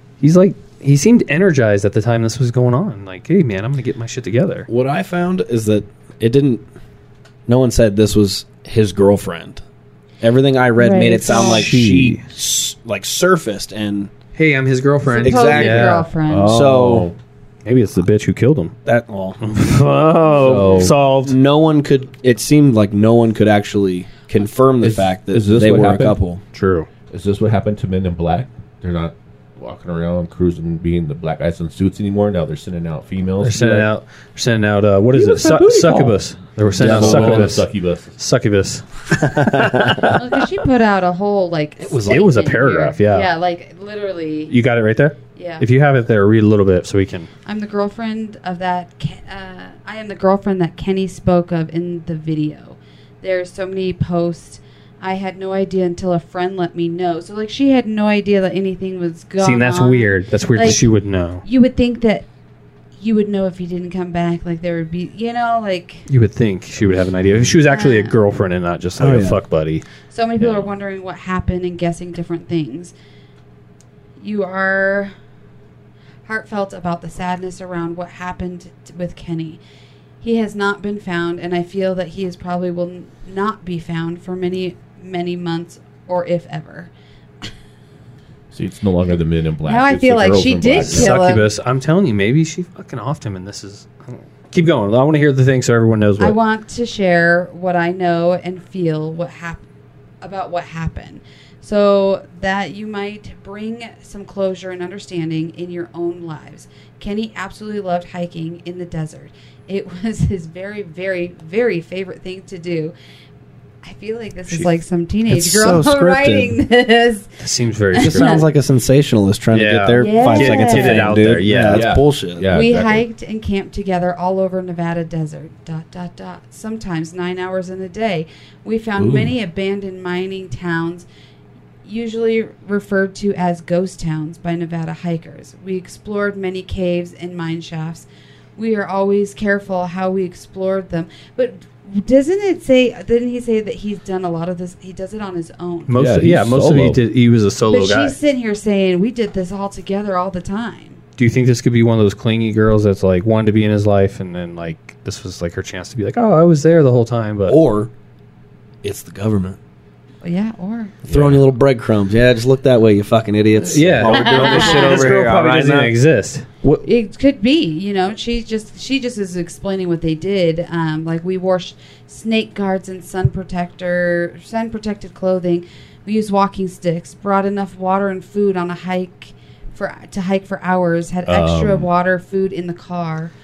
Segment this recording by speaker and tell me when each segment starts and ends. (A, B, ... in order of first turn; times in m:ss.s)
0:00.2-0:04.7 A
0:04.7-0:06.6 B
0:07.5-0:09.6 B
0:10.2-0:14.1 B
0:10.8-0:11.7 C
0:11.3-0:12.2 A
0:14.4-0:16.1 A
0:15.1-0:16.5 C
0:15.2-0:17.1 B
0:16.3-0:17.1 D
0:17.6-0:18.8 A
0:18.8-0:19.5 B
0:19.4-0:21.3 A
0:20.4-0:20.9 D
0:20.6-0:26.4 B
0:24.8-0:26.2 D
0:26.5-0:26.9 A
0:27.1-0:33.9 D
0:33.4-0:40.2 A
0:35.2-0:36.2 D
0:36.7-0:38.1 D
0:36.8-0:37.6 B
0:39.2-0:39.9 B
0:40.0-0:44.5 C
0:41.8-0:42.3 B
0:42.1-0:43.3 A
0:44.5-0:47.3 A
0:45.4-0:45.6 C
0:47.4-1:00.9 C
0:59.4-1:01.4 A
1:01.4-1:02.2 C
1:03.0-1:06.1 C
1:06.1-1:09.8 A
1:06.8-1:07.5 D
1:07.7-1:08.2 C
1:09.0-1:09.4 B
1:10.1-1:12.9 C
1:14.2-1:15.1 C
1:16.2-1:19.6 C
1:20.2-1:26.9 C
1:28.5-1:31.3 D
1:29.6-1:31.5 C
1:30.8-1:36.4 A
1:36.2-1:39.6 C
1:40.2-1:52.9 C
1:53.8-1:57.3 C
1:55.3-1:56.6 B
1:57.4-1:58.5 A
1:57.9-1:58.4 C
1:58.0-2:02.5 B
1:59.5-2:01.9 A
2:00.0-2:01.2 C
2:01.7-2:03.0 D
2:02.5-2:11.0 C
2:11.8-2:25.9 C
2:25.9-2:28.2 A
2:25.9-2:27.0 D
2:27.7-2:31.0 C
2:31.2-2:37.6 A
2:37.4-2:37.9 B
2:38.8-2:39.6 B
2:40.2-2:41.0 C
2:41.0-2:45.9 B
2:41.1-2:41.5 D
2:43.6-2:46.9 A
2:44.1-2:44.9 C
2:46.8-3:03.3 C
3:01.3-3:01.9 D